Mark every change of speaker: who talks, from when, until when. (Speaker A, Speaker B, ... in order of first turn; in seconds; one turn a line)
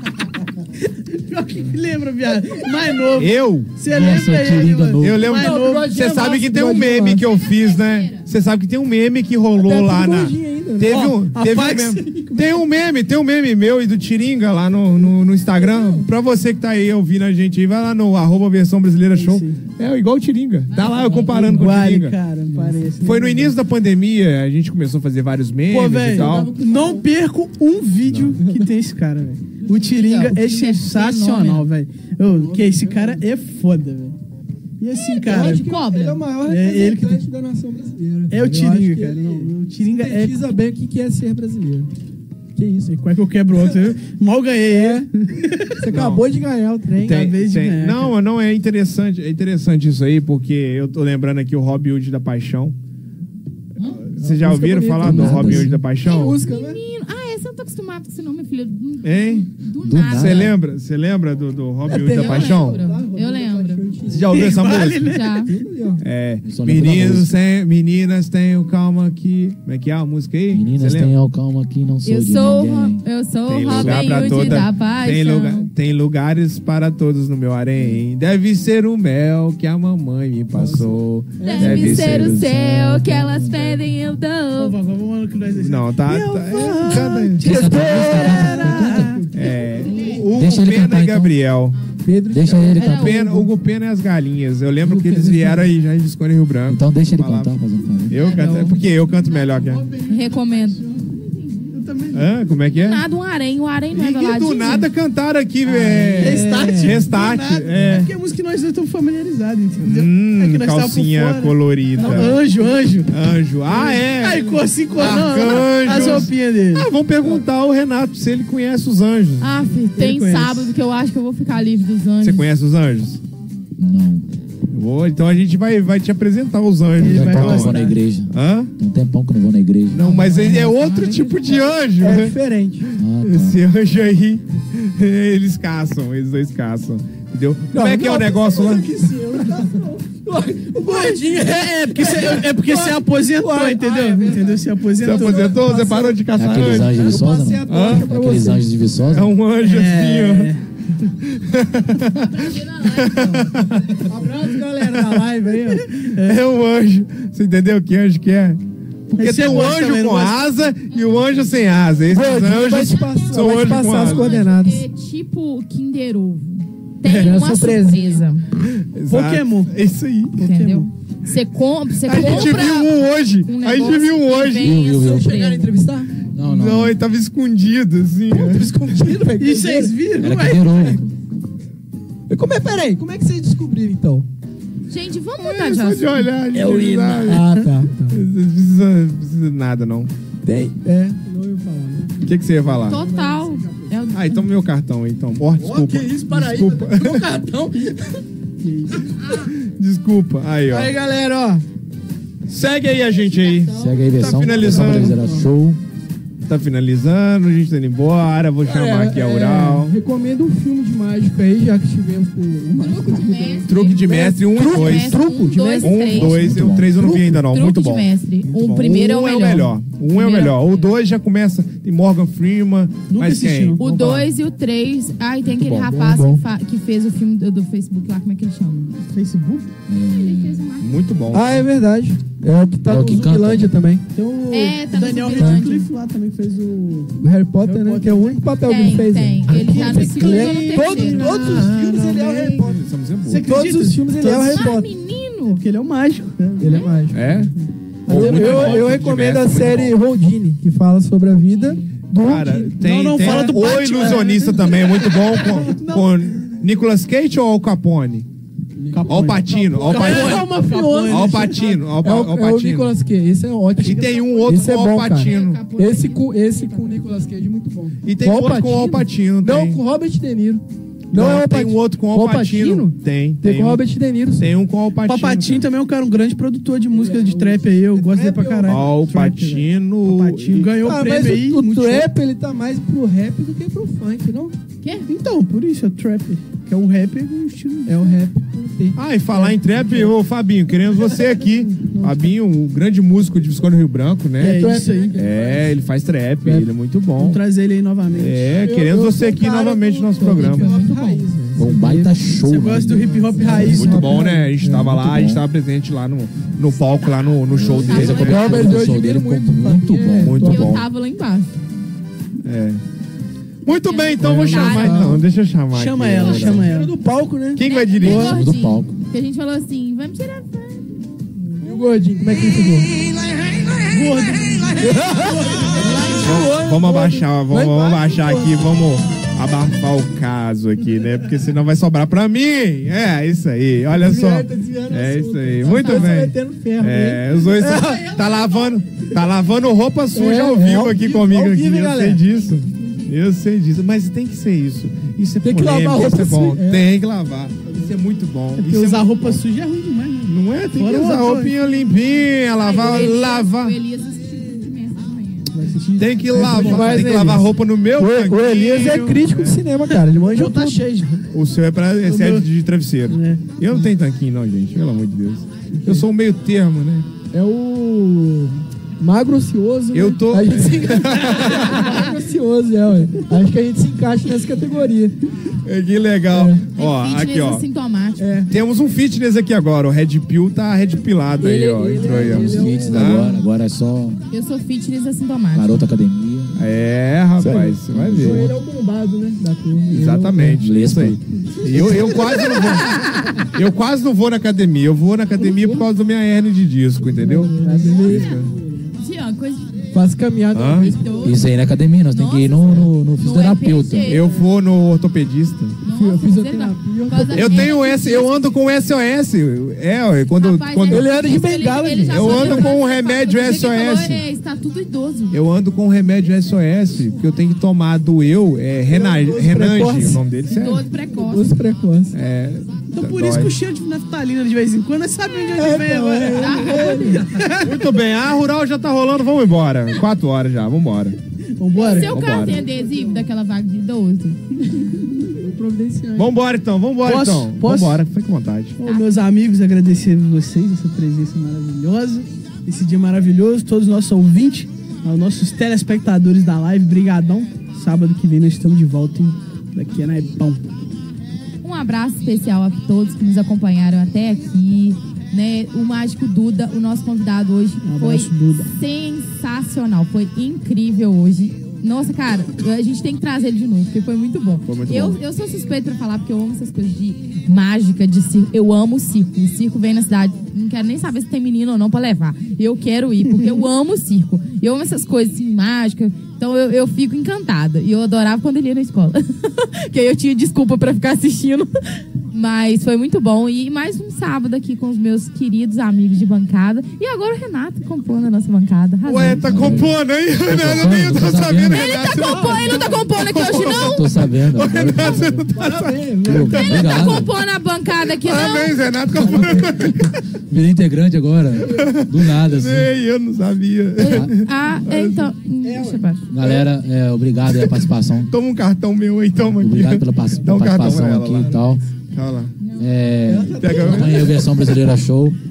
Speaker A: 0.8-6.0
Speaker B: 3.1-3.7
Speaker C: 3.8-5.3
Speaker B: 5.0-22.1
Speaker D: 5.3-7.2
Speaker E: 7.2-8.2
Speaker D: 9.6-11.1
Speaker A: 10.9-12.6
Speaker D: 15.4-16.1
Speaker A: 19.2-19.6
Speaker E: 20.7-21.5
Speaker A: 21.2-23.5
Speaker D: 22.5-23.1
Speaker B: 23.0-26.5
Speaker A: 25.7-34.1
Speaker D: 26.1-27.1
Speaker B: 28.1-28.4
Speaker D: 28.4-28.7
Speaker E: 29.9-31.7
Speaker D: 32.2-33.2
Speaker A: 34.8-35.6
Speaker E: 35.1-36.3
Speaker D: 35.3-41.9
Speaker A: 36.4-37.2
Speaker A: 38.3-40.4
Speaker D: 42.5-42.9
Speaker A: 42.9-45.8
Speaker D: 44.7-45.1
Speaker D: 45.8-47.2
Speaker B: 45.9-46.2
Speaker B: 47.0-52.7
Speaker A: 47.0-48.1
Speaker E: 53.8-54.1
Speaker B: 54.1-56.4
Speaker D: 54.2-56.8
Speaker C: 55.0-55.8
Speaker E: 56.0-60.5
Speaker B: 59.0-59.5
Speaker C: 59.8-60.5
Speaker B: 60.0-62.8
Speaker D: 61.9-64.7
Speaker E: 62.0-63.9
Speaker B: 64.1-65.2
Speaker A: 64.3-65.5
Speaker E: 65.0-65.5
Speaker D: 65.5-66.0
Speaker B: 66.0-71.2
Speaker C: 66.4-67.3
Speaker C: 70.5-73.0
Speaker E: 72.0-75.7
Speaker B: 73.5-82.4
Speaker C: 73.7-74.4
Speaker D: 80.5-81.9
Speaker E: 81.4-84.8
Speaker C: 81.8-83.8
Speaker A: 84.5-89.3
Speaker B: 85.5-87.5
Speaker D: 87.3-90.2
Speaker C: 87.4-89.2
Speaker B: 89.3-91.8
Speaker E: 89.4-90.3
Speaker C: 90.3-91.3
Speaker D: 92.0-93.5
Speaker C: 92.3-93.2
Speaker E: 92.5-93.2
Speaker B: 92.8-97.5
Speaker D: 94.8-95.7
Speaker C: 96.7-98.2
Speaker B: 98.1-99.8
Speaker E: 98.1-98.8
Speaker D: 98.2-100.7
Speaker E: 100.0-101.7
Speaker B: 102.1-103.0
Speaker E: 102.7-104.9
Speaker B: 103.9-108.1
Speaker E: 105.8-106.7
Speaker A: 105.9-113.1
Speaker D: 106.4-106.8
Speaker B: 109.8-112.4
Speaker D: 112.0-112.5
Speaker B: 113.1-119.5
Speaker A: 113.7-116.9
Speaker E: 119.4-122.5
Speaker A: 119.8-120.7
Speaker B: 122.2-123.2
Speaker C: 123.8-124.2
Speaker B: 124.7-128.7
Speaker A: 127.0-128.0
Speaker C: 127.0-131.2
Speaker B: 129.9-132.3
Speaker E: 130.1-131.6
Speaker D: 132.0-132.9
Speaker C: 133.0-133.6
Speaker B: 133.2-138.9
Speaker D: 137.7-148.7
Speaker A: 140.8-146.1
Speaker B: 145.0-147.1
Speaker C: 146.3-149.3
Speaker B: 147.7-148.1
Speaker B: 149.1-154.0
Speaker A: 149.6-150.6
Speaker E: 152.2-153.5
Speaker D: 154.1-155.9
Speaker B: 154.8-155.2
Speaker A: 155.9-156.4
Speaker B: 156.1-164.4
Speaker A: 159.2-160.4
Speaker E: 160.9-161.3
Speaker D: 162.1-164.8
Speaker E: 162.7-168.4
Speaker B: 167.0-167.3
Speaker D: 167.1-168.2
Speaker B: 168.6-170.4
Speaker A: 169.1-169.7
Speaker A: 170.3-170.9
Speaker E: 170.4-172.9
Speaker B: 172.0-174.7
Speaker D: 172.1-172.7
Speaker E: 173.4-175.8
Speaker C: 174.6-175.3
Speaker D: 174.8-176.1
Speaker C: 176.3-177.0
Speaker B: 176.4-179.2
Speaker D: 178.3-179.9
Speaker A: 179.3-181.0
Speaker C: 180.2-181.0
Speaker D: 182.3-184.2
Speaker E: 184.9-186.2
Speaker B: 185.4-187.5
Speaker A: 186.6-187.6
Speaker D: 187.2-188.2
Speaker B: 188.1-190.7
Speaker D: 190.5-194.1
Speaker B: 192.2-193.0
Speaker E: 192.8-194.4
Speaker B: 194.1-197.2
Speaker D: 195.6-199.0
Speaker B: 199.3-200.9
Speaker D: 200.7-201.6
Speaker B: 202.5-205.2
Speaker D: 203.2-205.5
Speaker C: 203.8-205.8
Speaker B: 206.4-209.9
Speaker D: 208.6-217.4
Speaker E: 212.8-216.6
Speaker B: 213.7-215.2
Speaker B: 215.8-224.3
Speaker C: 216.1-216.9
Speaker E: 217.4-220.9
Speaker A: 223.1-223.9
Speaker E: 223.8-228.9
Speaker C: 225.5-226.0
Speaker D: 225.9-226.4
Speaker A: 229.0-229.7
Speaker C: 229.9-230.6
Speaker E: 230.1-231.4
Speaker B: 230.8-231.7
Speaker D: 231.3-234.0
Speaker C: 232.9-233.7
Speaker A: 234.1-238.5
Speaker E: 234.5-235.9
Speaker D: 235.4-235.7
Speaker D: 237.2-242.8
Speaker E: 238.6-241.5
Speaker A: 239.5-241.4
Speaker B: 240.6-243.5
Speaker A: 243.2-244.7
Speaker D: 243.4-244.9
Speaker E: 244.3-245.6
Speaker A: 245.5-246.9
Speaker D: 246.6-247.5
Speaker E: 246.7-246.9
Speaker B: 247.1-247.5
Speaker D: 248.1-253.4
Speaker B: 248.1-250.0
Speaker A: 248.1-249.0
Speaker E: 251.5-251.9
Speaker B: 252.2-258.2
Speaker A: 252.8-256.2
Speaker D: 258.8-274.5
Speaker A: 258.9-261.8
Speaker B: 259.0-260.5
Speaker B: 261.1-262.9
Speaker A: 263.8-264.3
Speaker B: 263.8-265.6
Speaker E: 264.2-267.1
Speaker B: 268.0-269.8
Speaker B: 271.1-273.8
Speaker B: 274.4-275.7
Speaker A: 275.0-282.1
Speaker D: 276.9-278.9
Speaker B: 278.6-280.7
Speaker D: 280.7-284.6
Speaker E: 284.8-285.1
Speaker A: 285.0-288.1
Speaker D: 287.9-290.0
Speaker B: 288.9-297.4
Speaker A: 294.4-295.2
Speaker D: 294.4-295.7
Speaker A: 297.2-298.7
Speaker B: 298.1-300.8
Speaker D: 298.5-302.2
Speaker E: 300.3-301.3
Speaker C: 301.6-304.0
Speaker A: 302.4-304.3
Speaker D: 302.8-304.9
Speaker B: 303.7-308.7
Speaker C: 304.6-305.4
Speaker C: 307.5-310.6
Speaker E: 307.7-308.2
Speaker A: 307.9-308.8
Speaker D: 308.0-310.7
Speaker B: 310.2-310.8
Speaker E: 310.4-311.6
Speaker B: 312.4-312.8
Speaker B: 313.6-316.7
Speaker E: 313.7-315.2
Speaker D: 314.2-315.2
Speaker A: 314.3-314.6
Speaker A: 315.7-316.9
Speaker D: 316.4-317.6
Speaker B: 317.5-318.4
Speaker E: 317.6-320.9
Speaker C: 318.0-318.9
Speaker D: 321.6-322.9
Speaker A: 323.9-326.6
Speaker D: 324.8-328.6
Speaker B: 326.2-349.4
Speaker D: 333.9-338.1
Speaker E: 338.0-338.6
Speaker D: 340.1-342.2
Speaker D: 345.4-346.9
Speaker A: 348.6-351.6
Speaker B: 350.3-353.8
Speaker E: 352.6-355.5
Speaker A: 355.5-357.4
Speaker B: 356.0-359.6
Speaker D: 356.3-360.9
Speaker A: 360.1-361.2
Speaker B: 361.3-367.1
Speaker A: 362.0-362.4
Speaker A: 363.1-363.8
Speaker D: 367.3-375.1
Speaker B: 369.9-372.0
Speaker B: 375.6-377.6
Speaker D: 376.3-376.7
Speaker E: 376.8-378.4
Speaker D: 378.2-378.5
Speaker B: 378.5-383.4
Speaker D: 381.4-383.1
Speaker C: 382.0-384.2
Speaker E: 384.3-385.8
Speaker C: 385.5-386.5
Speaker B: 386.6-388.5
Speaker C: 387.4-388.5
Speaker D: 388.1-390.6
Speaker B: 389.9-392.9
Speaker C: 390.4-391.2
Speaker D: 391.4-392.6
Speaker B: 393.5-398.5
Speaker D: 395.4-395.8
Speaker D: 397.2-398.9
Speaker E: 397.8-398.4
Speaker E: 399.0-399.8
Speaker D: 399.9-401.3
Speaker B: 400.5-400.9
Speaker E: 400.8-401.4
Speaker C: 401.2-404.2
Speaker E: 402.1-404.5
Speaker B: 404.1-405.8
Speaker E: 405.8-408.5
Speaker D: 405.9-407.8
Speaker B: 407.3-411.1
Speaker E: 410.4-415.4
Speaker D: 410.9-412.7
Speaker B: 412.1-414.2
Speaker B: 415.3-420.8
Speaker D: 418.9-420.2
Speaker E: 420.5-421.5
Speaker D: 421.1-422.1
Speaker B: 422.1-423.5
Speaker A: 422.9-427.8
Speaker D: 425.6-427.3
Speaker E: 426.3-427.2
Speaker B: 427.6-431.2
Speaker A: 431.6-432.2
Speaker E: 431.7-434.4
Speaker B: 432.1-432.6
Speaker D: 432.4-433.2
Speaker D: 435.3-436.3
Speaker B: 436.1-438.8
Speaker A: 437.0-438.0
Speaker A: 438.8-450.6
Speaker E: 438.8-439.2
Speaker E: 451.6-481.7
Speaker A: 457.8-458.7
Speaker B: 464.6-465.2
Speaker E: 482.3-489.8
Speaker B: 489.0-497.1
Speaker C: 489.2-489.9
Speaker C: 490.4-491.8
Speaker E: 491.7-494.1
Speaker D: 492.1-493.1
Speaker C: 493.8-495.5
Speaker D: 495.5-497.2
Speaker C: 496.2-497.3
Speaker E: 496.7-499.0
Speaker B: 498.1-500.2
Speaker D: 499.2-499.7
Speaker C: 499.3-502.9
Speaker B: 501.6-505.3
Speaker E: 504.0-506.2
Speaker C: 504.1-504.3
Speaker D: 505.6-506.0
Speaker C: 506.3-508.3
Speaker B: 507.6-512.5
Speaker C: 509.6-511.8
Speaker C: 512.8-515.4
Speaker D: 513.2-514.5
Speaker B: 513.6-514.3